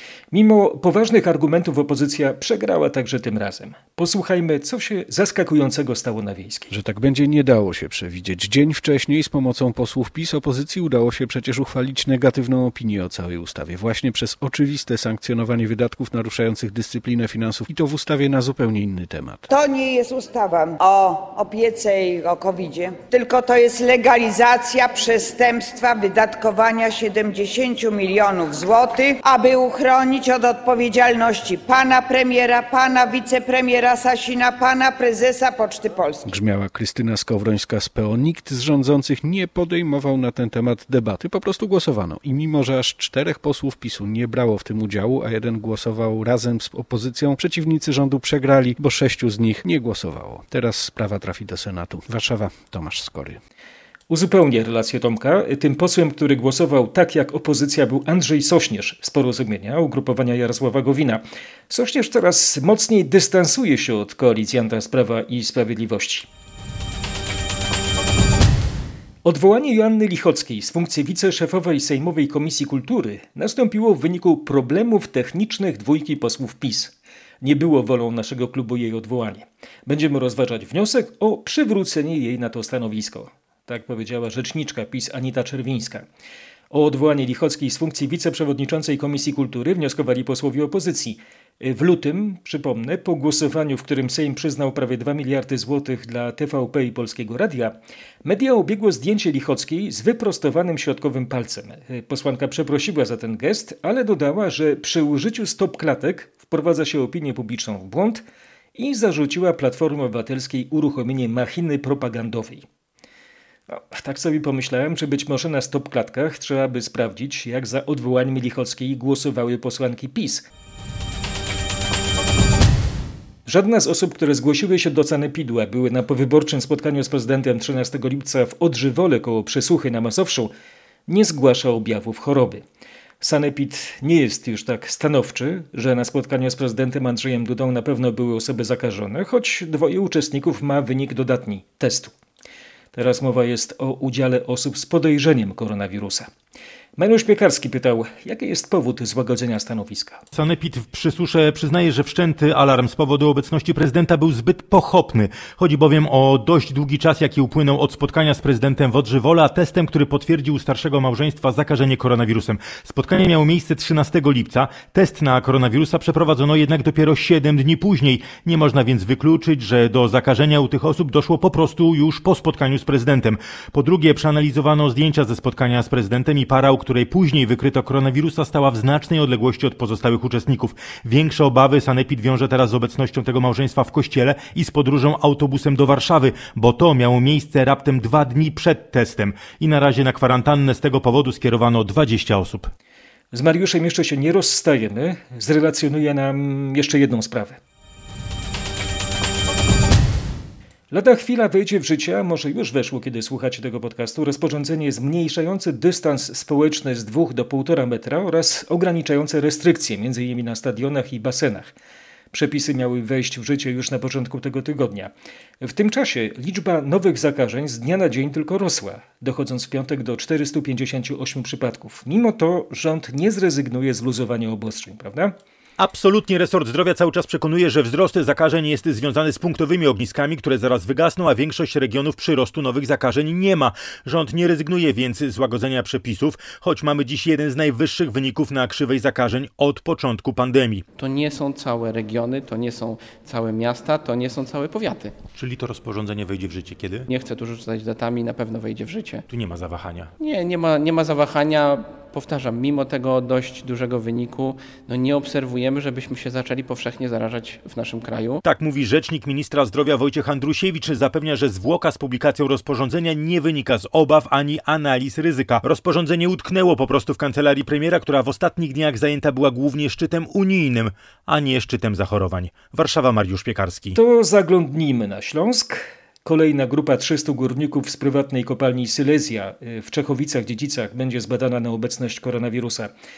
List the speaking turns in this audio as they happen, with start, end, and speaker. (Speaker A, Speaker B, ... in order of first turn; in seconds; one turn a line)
Speaker A: 0.3-6.7
Speaker B: 6.7-19.4
Speaker C: 19.5-36.2
Speaker B: 36.2-53.4
Speaker A: 54.1-66.3
Speaker A: 69.2-86.0
Speaker A: 86.7-108.2
Speaker A: 108.8-112.6
Speaker A: 113.7-120.4
Speaker A: 123.5-130.5
Speaker A: 131.1-132.6
Speaker A: 133.2-142.1
Speaker A: 142.9-146.3
Speaker A: 147.0-150.2
Speaker D: 150.3-192.7
Speaker A: 193.3-197.6
Speaker A: 200.9-211.7
Speaker A: 212.3-225.3
Speaker D: 225.8-240.8
Speaker E: 241.0-245.1
Speaker D: 245.3-247.1
Speaker E: 247.1-249.2
Speaker D: 249.3-250.1
Speaker E: 250.2-258.4
Speaker D: 258.4-274.0
Speaker A: 273.9-282.9